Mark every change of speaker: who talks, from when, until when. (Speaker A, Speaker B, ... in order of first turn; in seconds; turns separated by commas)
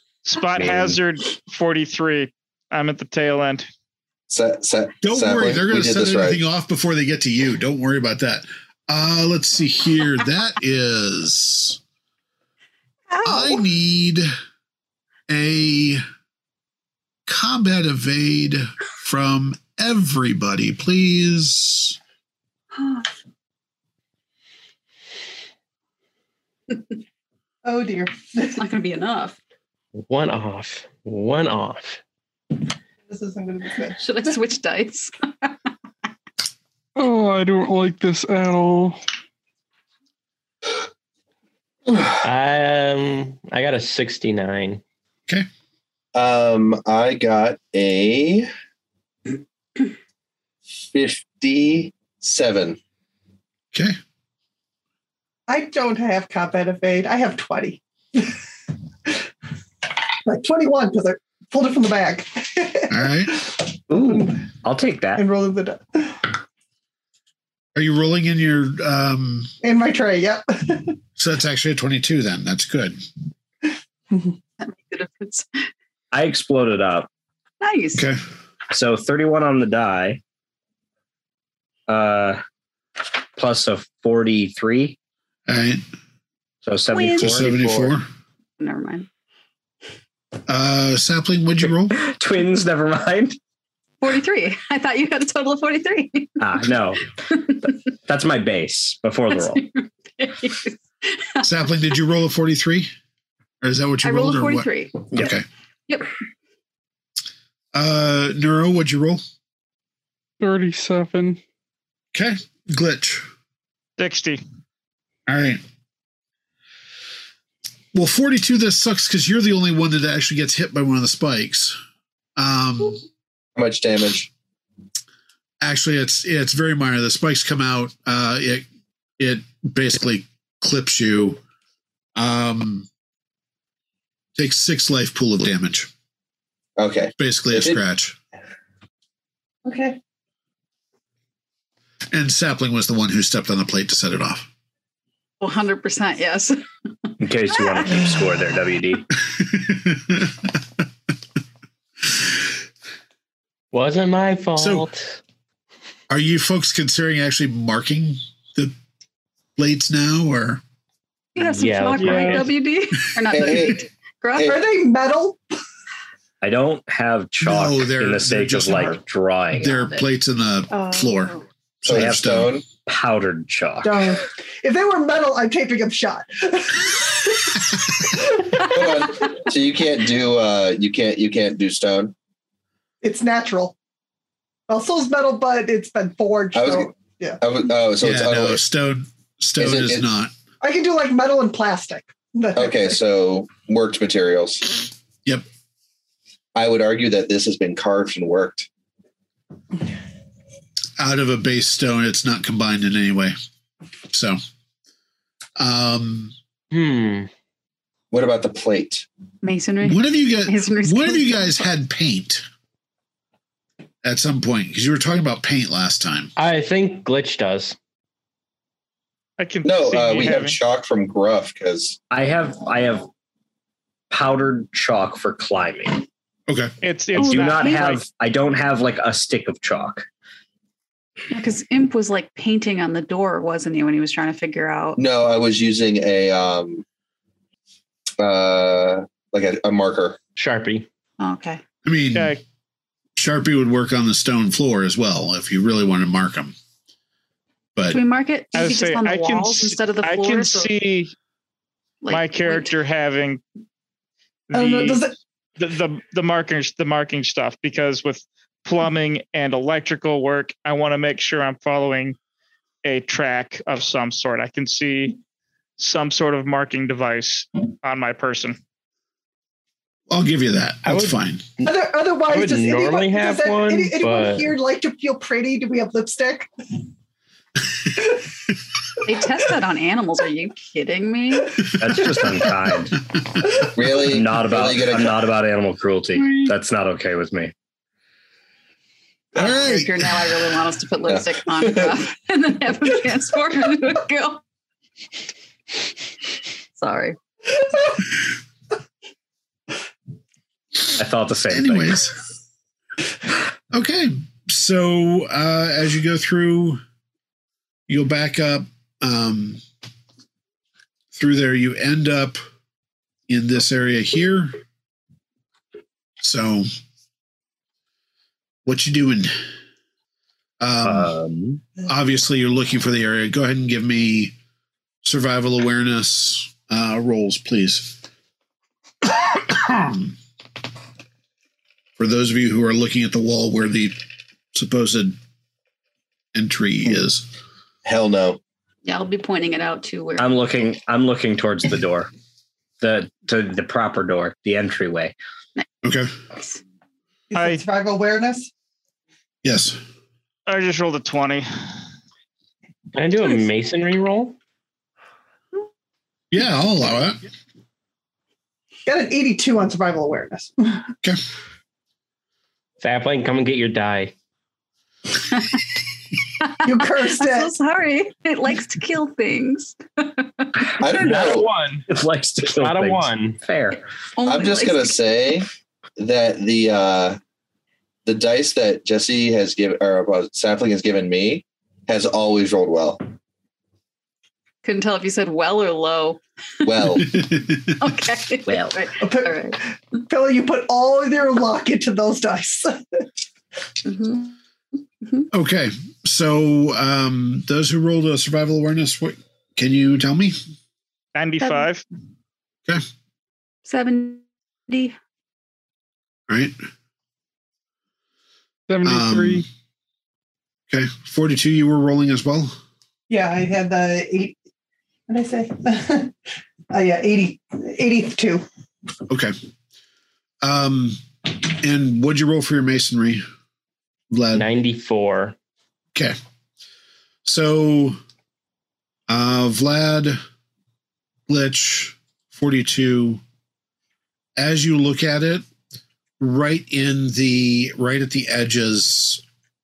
Speaker A: 0.2-3.7, Speaker B: 0.6-0.9, Speaker C: 4.3-6.4, Speaker D: 5.0-11.8, Speaker E: 13.1-13.6, Speaker D: 13.2-14.3, Speaker D: 15.3-16.0, Speaker D: 17.3-22.0, Speaker E: 22.8-23.1, Speaker F: 27.6-28.6, Speaker E: 28.6-29.4, Speaker G: 30.0-32.0, Speaker F: 33.1-34.3, Speaker E: 34.0-35.5, Speaker H: 37.0-39.0, Speaker G: 42.2-44.8, Speaker C: 46.1-48.5, Speaker C: 50.8-52.8, Speaker F: 55.5-58.4, Speaker F: 60.2-64.4, Speaker D: 62.9-63.3, Speaker B: 63.9-65.2, Speaker F: 65.2-66.3, Speaker D: 67.8-69.5, Speaker F: 69.6-71.0, Speaker D: 71.2-73.0, Speaker F: 74.1-74.4, Speaker E: 74.6-75.7, Speaker B: 76.1-77.1, Speaker E: 77.6-78.1, Speaker B: 78.7-80.2, Speaker B: 81.9-82.4, Speaker B: 83.4-85.0, Speaker D: 85.5-85.8, Speaker B: 86.6-88.0, Speaker E: 86.9-87.3, Speaker D: 87.2-88.1, Speaker E: 88.6-89.1, Speaker D: 90.5-92.0, Speaker B: 91.9-93.4, Speaker E: 94.0-96.6, Speaker B: 96.4-99.6, Speaker E: 97.3-97.7, Speaker E: 99.3-101.4, Speaker D: 101.4-102.9, Speaker D: 103.6-105.5, Speaker E: 104.0-105.4, Speaker D: 107.7-109.2, Speaker H: 110.4-111.4, Speaker D: 112.1-113.2, Speaker A: 114.0-114.4, Speaker D: 115.3-115.6, Speaker D: 117.9-121.8, Speaker D: 122.4-123.0, Speaker C: 123.6-124.3, Speaker D: 125.6-128.7, Speaker D: 129.2-131.4, Speaker D: 132.2-132.9, Speaker D: 134.4-135.9, Speaker C: 136.8-137.8, Speaker D: 137.2-138.2, Speaker F: 139.7-140.0, Speaker D: 142.1-144.5, Speaker E: 145.4-147.1, Speaker B: 147.2-149.0, Speaker E: 147.7-148.0, Speaker D: 149.3-150.5, Speaker G: 153.7-155.2, Speaker D: 154.6-154.9, Speaker D: 156.1-158.7, Speaker D: 159.6-160.6, Speaker E: 161.4-164.6, Speaker G: 161.4-162.5, Speaker H: 162.0-162.5, Speaker C: 163.3-163.9, Speaker F: 164.4-165.4, Speaker B: 166.4-169.9, Speaker D: 167.4-169.0, Speaker D: 169.5-172.5, Speaker E: 170.7-171.4, Speaker C: 171.9-172.7, Speaker B: 171.9-174.2, Speaker F: 173.8-178.6, Speaker C: 178.6-182.1, Speaker F: 183.0-183.8, Speaker F: 184.7-187.4, Speaker C: 186.6-188.6, Speaker D: 188.0-190.3, Speaker C: 189.6-190.0, Speaker F: 190.6-193.0, Speaker C: 192.6-194.8, Speaker C: 196.6-198.7, Speaker D: 201.0-203.3, Speaker D: 204.1-204.4, Speaker D: 205.6-206.3, Speaker G: 206.7-207.3, Speaker C: 208.1-209.1, Speaker E: 209.4-211.7, Speaker D: 209.8-212.4, Speaker D: 214.0-216.3, Speaker G: 216.4-217.8, Speaker A: 219.4-220.6, Speaker C: 219.6-222.0, Speaker B: 222.1-223.1, Speaker B: 224.1-226.1, Speaker A: 226.8-228.0, Speaker B: 227.1-230.1, Speaker E: 227.2-228.0, Speaker E: 231.3-235.0, Speaker C: 235.0-236.8, Speaker C: 238.2-240.2, Speaker G: 240.4-240.9, Speaker E: 241.2-241.6, Speaker D: 241.8-242.4, Speaker A: 242.2-242.4, Speaker D: 243.2-246.5, Speaker E: 247.9-250.7, Speaker A: 248.5-251.2, Speaker E: 252.0-252.7, Speaker A: 252.1-253.4, Speaker A: 254.5-255.0, Speaker F: 254.5-255.1, Speaker A: 255.6-262.2, Speaker A: 262.8-265.2, Speaker A: 265.8-268.6, Speaker D: 270.1-271.4, Speaker G: 270.9-271.2, Speaker F: 271.6-276.5, Speaker G: 272.3-274.5, Speaker E: 279.1-281.7, Speaker B: 281.8-283.0, Speaker C: 283.6-285.2, Speaker B: 284.0-287.5, Speaker E: 289.4-294.4, Speaker D: 289.4-290.0, Speaker C: 291.1-291.9, Speaker E: 296.8-297.2, Speaker B: 300.9-302.0, Speaker D: 301.5-302.2, Speaker D: 303.7-306.8, Speaker D: 307.9-309.6, Speaker D: 311.1-312.4, Speaker D: 313.3-314.6, Speaker D: 316.2-316.7, Speaker D: 318.6-319.4, Speaker D: 320.6-321.1, Speaker B: 320.8-321.6, Speaker D: 321.9-324.3, Speaker D: 325.0-328.0, Speaker D: 329.4-330.1, Speaker D: 332.0-334.0, Speaker D: 334.5-335.2, Speaker D: 336.3-337.3, Speaker C: 337.9-338.4, Speaker E: 338.8-340.3, Speaker B: 340.2-342.1, Speaker B: 342.8-345.1, Speaker D: 345.8-346.1, Speaker F: 347.3-348.5, Speaker A: 347.4-347.6, Speaker D: 349.4-349.8, Speaker A: 350.5-351.5, Speaker G: 352.9-354.4, Speaker D: 356.3-357.2, Speaker F: 358.9-360.8, Speaker G: 362.8-364.1, Speaker E: 366.4-371.3, Speaker F: 366.6-367.5, Speaker C: 370.8-371.5, Speaker G: 370.9-371.9, Speaker B: 371.9-373.8, Speaker G: 372.4-373.4, Speaker E: 374.1-375.0, Speaker C: 374.3-377.2, Speaker C: 378.1-383.0, Speaker E: 384.6-387.2, Speaker C: 386.6-387.2, Speaker D: 387.0-388.0, Speaker E: 387.8-389.6, Speaker B: 388.5-388.8, Speaker F: 389.0-393.1, Speaker E: 393.9-394.4, Speaker D: 395.3-400.4, Speaker A: 401.1-401.8, Speaker E: 403.6-405.0, Speaker D: 406.3-406.6, Speaker H: 408.7-409.4, Speaker D: 408.8-409.4, Speaker D: 410.7-412.6, Speaker F: 413.1-414.4, Speaker F: 415.1-416.1, Speaker F: 416.7-418.4, Speaker D: 419.1-419.3, Speaker D: 420.4-423.2, Speaker D: 424.1-424.5, Speaker G: 424.3-425.4, Speaker D: 427.2-428.0, Speaker D: 429.1-430.2, Speaker D: 431.3-433.2, Speaker D: 434.4-435.4, Speaker D: 436.2-439.2